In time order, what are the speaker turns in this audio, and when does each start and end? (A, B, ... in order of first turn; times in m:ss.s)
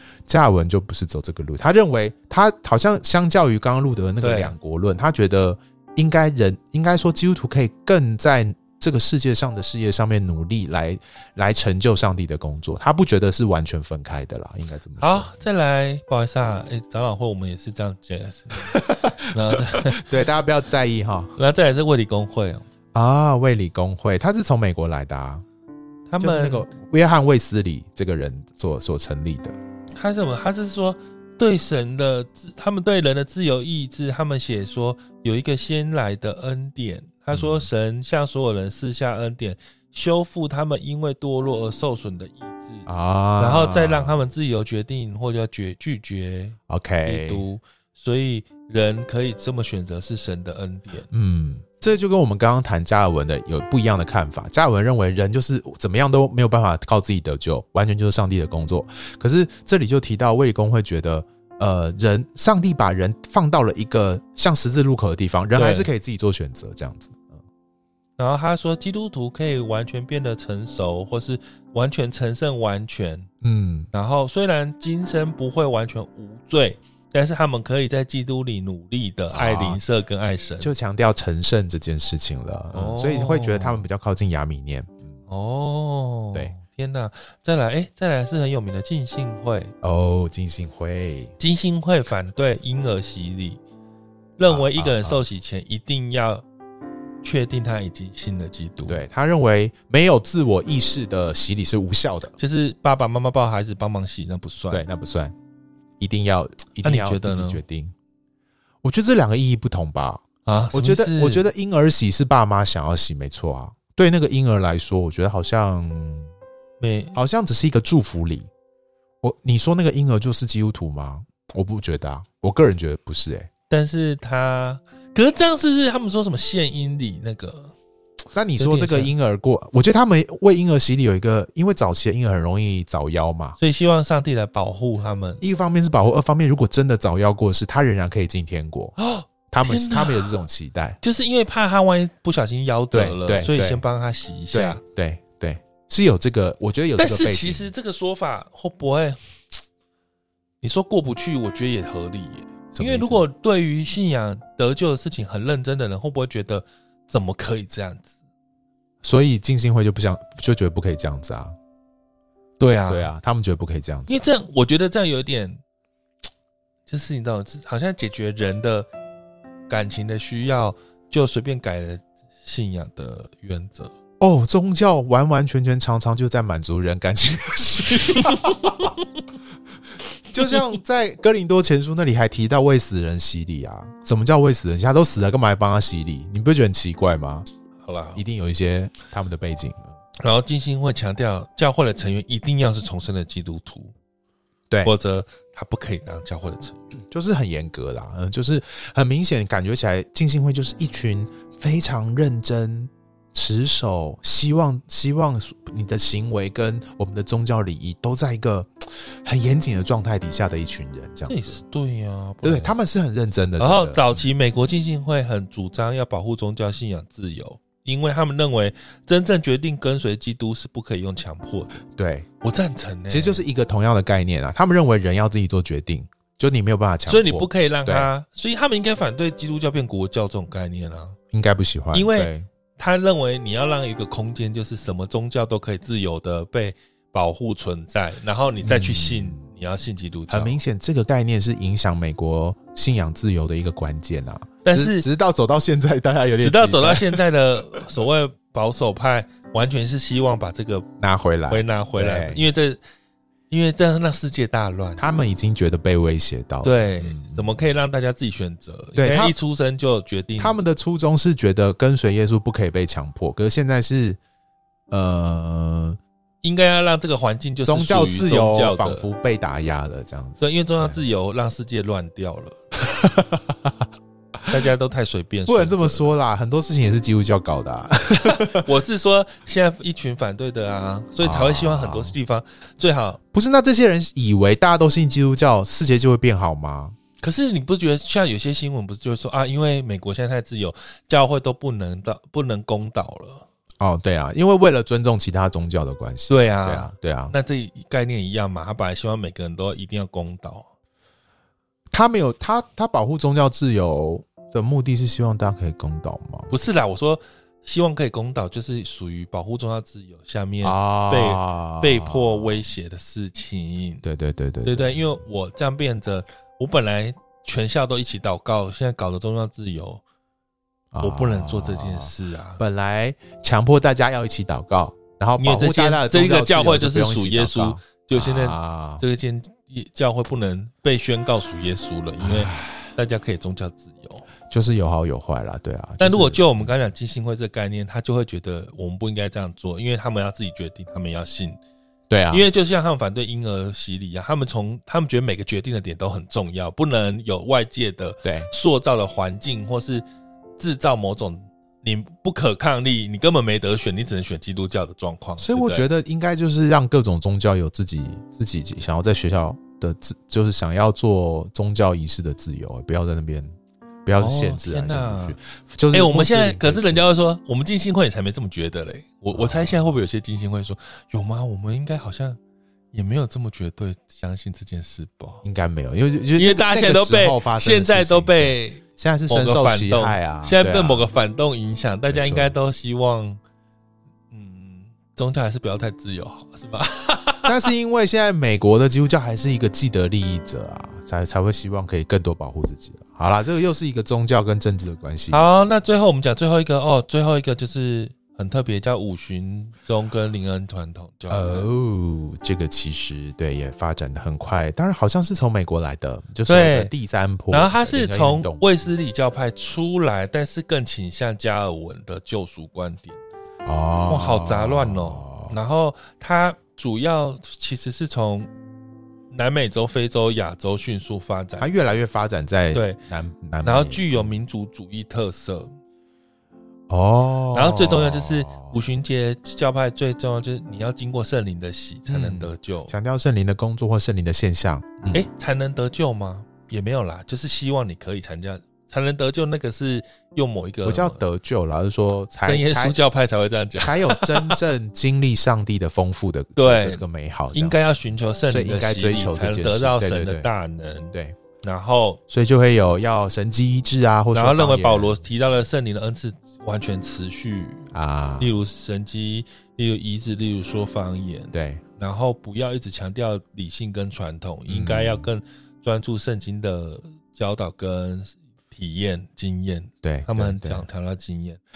0:00.3-0:15.3 A
0:04.2-0:04.5 B
0:15.0-0:20.1 B
0:18.7-0:19.1 A
0:19.7-0:21.4 A
0:21.4-0:22.6 B
0:22.9-0:25.4 A
0:26.1-0:26.7 B
0:26.2-0:29.6 A
0:29.9-0:51.1 B
0:37.3-0:37.7 A
0:42.8-0:44.2 A
0:46.7-0:47.4 A
0:51.1-1:07.4 A
1:05.5-1:05.9 B
1:08.2-1:13.3 B
1:13.4-1:13.9 A
1:13.9-1:20.7 B
1:19.3-1:19.8 A
1:20.6-1:25.1 A
1:22.7-1:23.8 B
1:25.3-1:29.7 B
1:29.8-1:31.3 A
1:31.4-1:33.6 B
1:34.4-1:36.4 B
1:34.5-1:35.2 A
1:37.2-1:39.0 B
1:38.8-1:42.3 A
1:42.4-1:44.9 B
1:44.7-1:45.4 A
1:46.0-1:47.9 A
1:46.8-1:47.6 B
1:48.8-1:56.3 A
1:50.4-1:51.4 B
1:56.8-1:57.2 B
1:57.1-1:58.5 A
1:59.2-2:03.5 A
2:03.7-2:07.7 B
2:08.3-2:13.6 A
2:08.6-2:09.1 B
2:13.6-2:15.4 B
2:15.4-2:19.0 A
2:19.0-2:20.4 B
2:19.5-2:21.0 A
2:21.0-2:24.8 B
2:22.9-2:23.8 A
2:24.5-2:27.7 A
2:27.0-2:29.2 B
2:30.6-2:38.1 B
2:32.7-2:33.2 A
2:39.0-2:41.5 A
2:42.6-2:43.1 B
2:42.9-2:44.2 A
2:44.1-2:45.6 B
2:46.9-2:48.9 B
2:49.7-2:53.9 B
2:54.2-2:59.0 A
2:58.2-2:58.9 B
3:00.3-3:07.5 A
3:07.8-3:08.2 B
3:08.1-3:09.9 A
3:10.2-3:13.9 B
3:14.8-3:16.9 B
3:17.0-3:31.6 A
3:31.3-3:32.7 B
3:32.4-3:34.2 A
3:33.6-3:41.8 B
3:41.8-3:42.3 A
3:42.4-3:43.4 B
3:43.1-3:48.1 A
3:47.1-3:51.2 B
3:51.3-3:52.5 A
3:51.9-4:00.6 B
3:58.6-3:59.4 A
4:00.3-4:07.2 A
4:04.6-4:05.0 B
4:06.4-4:10.9 B
4:11.0-4:12.4 A
4:11.5-4:12.8 B
4:13.5-4:15.0 B
4:15.0-4:17.6 A
4:16.6-4:20.6 B
4:19.0-4:19.4 A
4:20.4-4:24.2 A
4:24.9-4:26.0 A
4:26.4-4:29.1 B
4:27.6-4:31.0 A
4:30.4-4:32.7 B
4:32.9-4:33.7 A
4:34.5-4:36.1 B
4:35.5-4:38.6 A
4:38.2-4:43.2 B
4:41.2-4:42.2 A
4:43.3-4:47.0 A
4:47.2-4:53.5 B
4:53.8-4:57.3 A
4:56.3-5:00.7 B
5:01.9-5:06.5 A
5:06.5-5:14.0 B
5:10.6-5:12.6 A
5:14.0-5:15.0 A
5:14.6-5:20.0 B
5:20.9-5:29.0 A
5:21.0-5:22.6 B
5:25.4-5:34.3 B
5:32.2-5:32.9 A
5:34.5-5:36.7 A
5:36.0-5:41.6 B
5:42.1-5:42.5 A
5:42.3-5:50.0 B
5:48.2-5:48.5 A
5:50.6-5:55.8 B
5:55.4-6:03.5 A
6:04.0-6:07.0 A
6:04.2-6:05.4 B
6:05.9-6:12.4 B
6:09.3-6:09.9 A
6:12.9-6:15.4 B
6:15.4-6:21.1 A
6:16.4-6:23.4 B
6:22.1-6:22.6 A
6:24.3-6:27.7 B
6:27.4-6:35.6 A
6:35.3-6:41.7 B
6:41.3-6:48.6 A
6:46.5-6:46.9 B
6:47.5-6:53.2 B
6:53.6-6:55.6 A
6:54.1-6:58.5 B
6:59.3-7:01.7 B
7:01.6-7:04.3 A
7:02.7-7:03.0 B
7:03.6-7:05.7 B
7:06.9-7:08.7 A
7:07.5-7:12.9 B
7:12.1-7:15.2 A
7:15.1-7:21.2 B
7:20.8-7:23.0 A
7:22.4-7:24.6 B
7:23.8-7:27.8 A
7:26.6-7:32.2 B
7:28.5-7:30.5 A
7:32.3-7:35.2 A
7:34.3-7:51.6 B
7:37.9-7:38.5 A
7:41.5-7:41.8 A
7:44.7-7:45.3 A
7:50.0-7:50.8 A